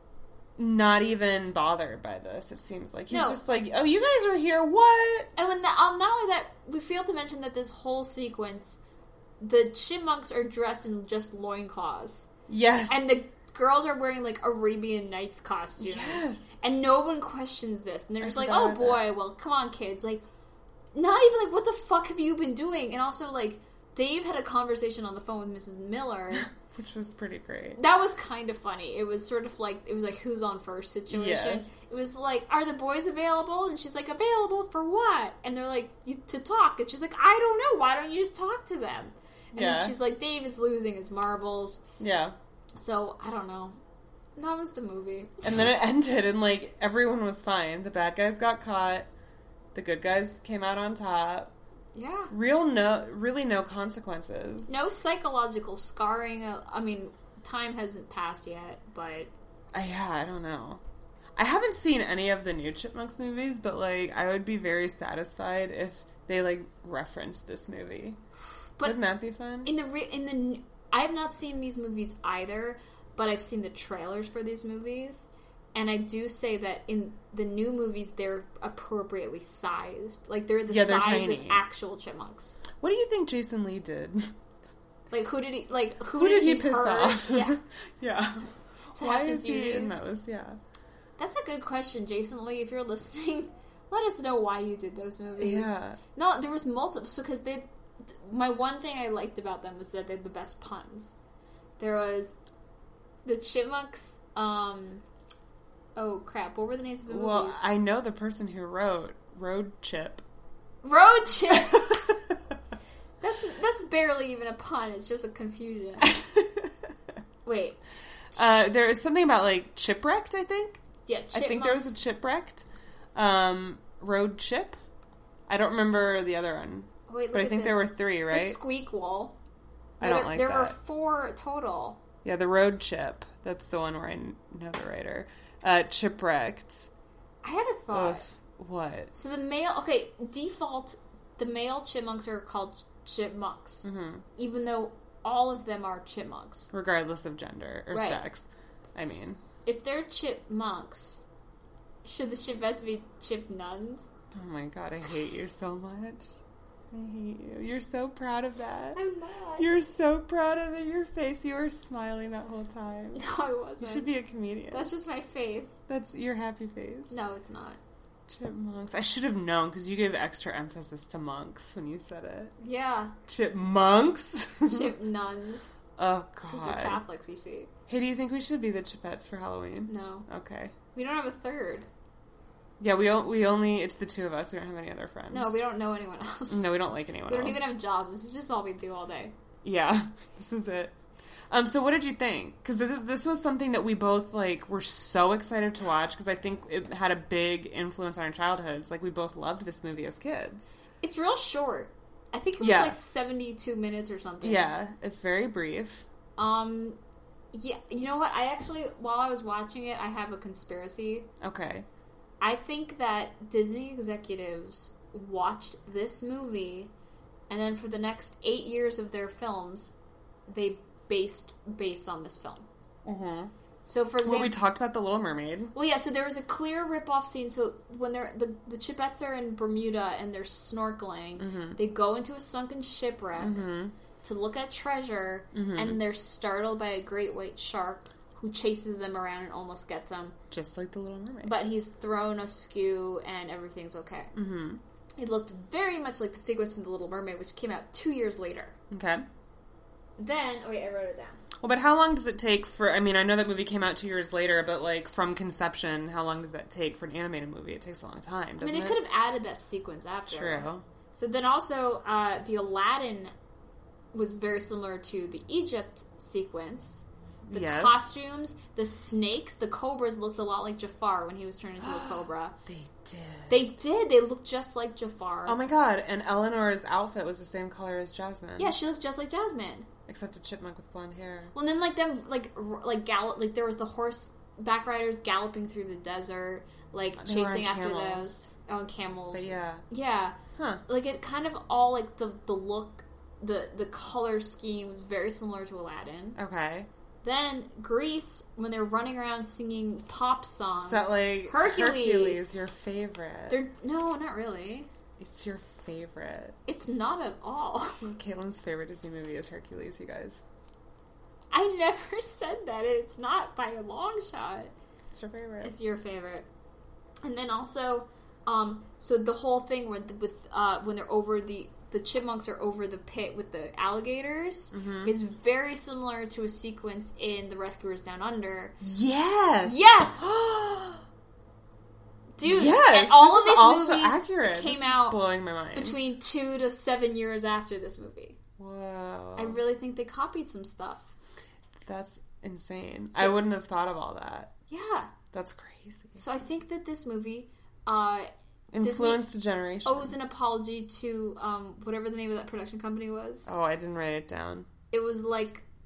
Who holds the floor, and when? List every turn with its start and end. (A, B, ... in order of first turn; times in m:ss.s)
0:00.6-0:05.3 A
0:03.1-0:03.4 B
0:05.4-0:08.8 B
0:09.4-0:12.3 B
0:12.5-0:13.1 A
0:12.9-0:20.2 B
0:15.8-0:16.5 A
0:18.2-0:19.0 A
0:20.9-0:26.5 B
0:26.4-0:27.8 A
0:27.8-0:41.8 B
0:31.1-0:31.7 A
0:39.6-0:40.0 A
0:42.0-0:42.4 A
0:42.8-0:43.8 B
0:44.4-0:45.4 B
0:45.4-0:49.1 A
0:49.7-0:51.5 A
0:52.0-0:52.3 B
0:52.3-0:54.7 A
0:54.7-0:59.3 B
0:59.7-1:00.8 A
1:01.4-1:08.2 A
1:08.8-1:09.7 A
1:09.6-1:22.6 B
1:20.7-1:21.6 A
1:22.8-1:24.3 A
1:25.1-1:27.6 B
1:26.2-1:30.6 A
1:29.0-1:30.0 B
1:31.2-1:41.1 B
1:35.4-1:36.0 A
1:41.8-1:42.4 B
1:43.2-1:45.0 B
1:46.0-1:47.6 B
1:47.1-1:50.2 A
1:50.8-1:52.0 B
1:51.9-1:52.3 A
1:53.2-1:56.2 B
1:56.1-1:56.7 A
1:57.5-1:57.8 B
1:58.4-2:00.8 A
2:01.1-2:01.9 B
2:01.3-2:04.8 A
2:05.5-2:08.6 A
2:07.1-2:09.4 B
2:10.0-2:10.8 A
2:10.0-2:12.0 B
2:12.2-2:16.9 A
2:17.4-2:18.2 B
2:17.9-2:19.1 A
2:19.1-2:23.9 B
2:23.8-2:24.2 A
2:24.4-2:26.7 B
2:26.7-2:29.4 A
2:27.9-2:28.2 B
2:29.6-2:31.2 B
2:32.0-2:34.1 B
2:34.3-2:36.3 A
2:36.9-2:39.0 A
2:39.0-2:39.7 B
2:39.6-2:43.2 A
2:43.2-2:44.1 B
2:43.8-2:44.9 A
2:44.7-2:45.8 B
2:45.9-2:47.1 A
2:47.1-2:47.8 B
2:48.3-2:52.5 A
2:52.6-2:53.2 B
2:53.3-2:55.0 A
2:54.7-2:55.8 B
2:56.0-2:57.0 A
2:56.5-2:57.7 B
2:57.9-3:00.8 A
2:59.9-3:00.3 B
3:00.9-3:01.9 B
3:02.8-3:05.5 A
3:05.3-3:06.7 B
3:06.5-3:07.6 A
3:07.3-3:09.3 B
3:09.6-3:11.0 A
3:11.5-3:20.7 A
3:21.0-3:24.7 B
3:22.6-3:23.0 A
3:24.4-3:26.1 A
3:26.4-3:27.0 B
3:27.5-3:31.3 B
3:31.4-3:31.9 A
3:32.4-3:36.9 B
3:37.5-3:39.9 B
3:40.5-3:42.7 B
3:43.0-3:43.5 A
3:43.8-3:44.5 B
3:44.2-3:45.7 A
3:45.7-3:53.6 B
3:51.4-3:51.8 A
3:53.4-3:53.9 A
3:54.2-4:00.4 B
3:55.5-3:56.0 A
4:00.5-4:01.6 A
4:01.4-4:04.3 B
4:04.3-4:04.8 A
4:05.2-4:08.8 B
4:08.9-4:09.2 A
4:10.2-4:11.4 B
4:11.6-4:19.0 A
4:18.6-4:23.3 B
4:20.3-4:20.8 A
4:24.1-4:32.6 B
4:27.5-4:28.1 A
4:31.8-4:33.6 A
4:33.5-4:35.6 B
4:35.5-4:38.8 A
4:38.6-4:39.9 B
4:40.1-4:41.5 A
4:41.5-4:56.4 B
4:47.2-4:48.5 A
4:49.3-4:49.8 A
4:50.6-4:50.8 A
4:56.4-4:56.9 A
4:57.2-5:02.5 B
5:00.8-5:03.6 A
5:03.5-5:04.9 B
5:05.2-5:06.6 A
5:06.7-5:08.1 B
5:08.0-5:10.4 A
5:11.5-5:14.7 B
5:15.1-5:15.7 A
5:15.6-5:16.5 B
5:17.2-5:28.8 B
5:24.7-5:25.1 A
5:28.8-5:31.0 A
5:29.6-5:30.3 B
5:32.4-5:35.2 B
5:32.4-5:36.1 A
5:35.7-5:38.4 B
5:38.6-5:39.6 A
5:39.4-5:41.1 B
5:41.8-5:44.5 A
5:44.7-5:45.1 B
5:45.3-5:46.2 A
5:46.2-5:48.3 B
5:48.7-5:50.1 A
5:48.8-5:49.3 B
5:49.8-5:53.5 B
5:53.5-5:54.7 A
5:54.9-5:55.6 B